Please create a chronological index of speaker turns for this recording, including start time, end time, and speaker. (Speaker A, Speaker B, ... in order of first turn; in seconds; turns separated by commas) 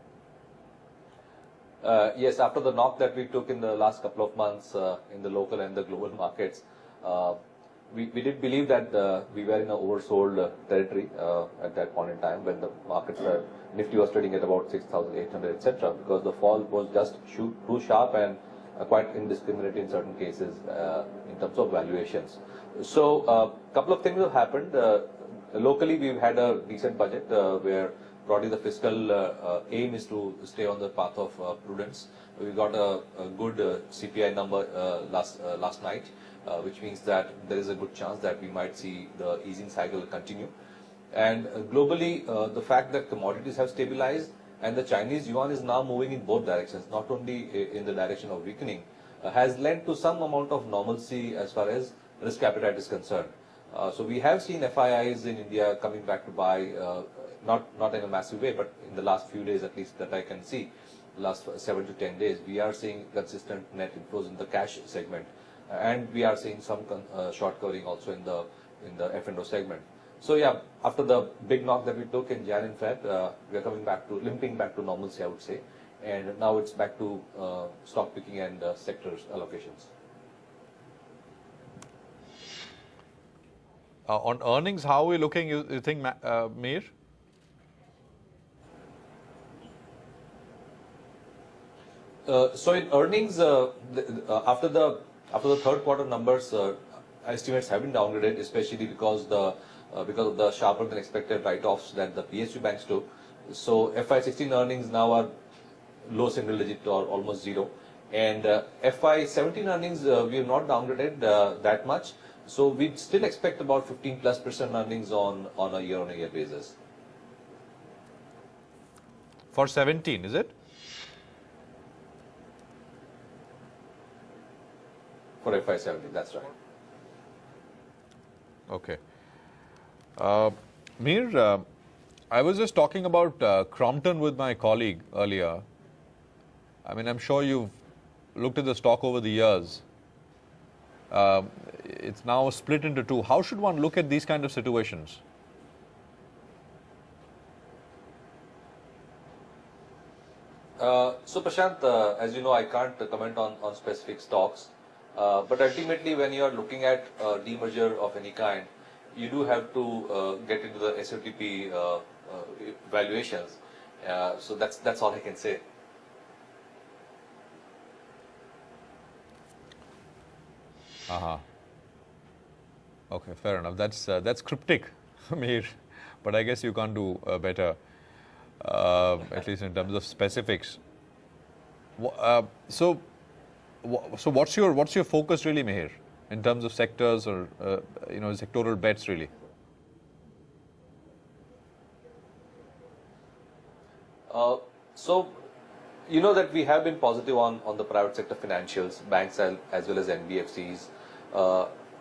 Speaker A: 1.8-7.4, Speaker A: 7.9-40.5, Speaker A: 41.1-79.9, Speaker B: 84.1-86.9, Speaker A: 92.3-105.3, Speaker A: 106.1-116.8, Speaker B: 119.5-120.5, Speaker A: 125.4-126.5, Speaker B: 128.7-129.0, Speaker B: 130.2-131.7, Speaker B: 132.3-135.6, Speaker B: 136.8-137.7, Speaker B: 138.3-139.8, Speaker B: 141.1-145.2, Speaker A: 150.8-165.6, Speaker B: 171.1-171.4, Speaker B: 173.1-177.8, Speaker B: 178.6-180.8, Speaker B: 182.0-183.0, Speaker B: 183.8-189.3, Speaker A: 194.3-195.4, Speaker A: 196.1-201.7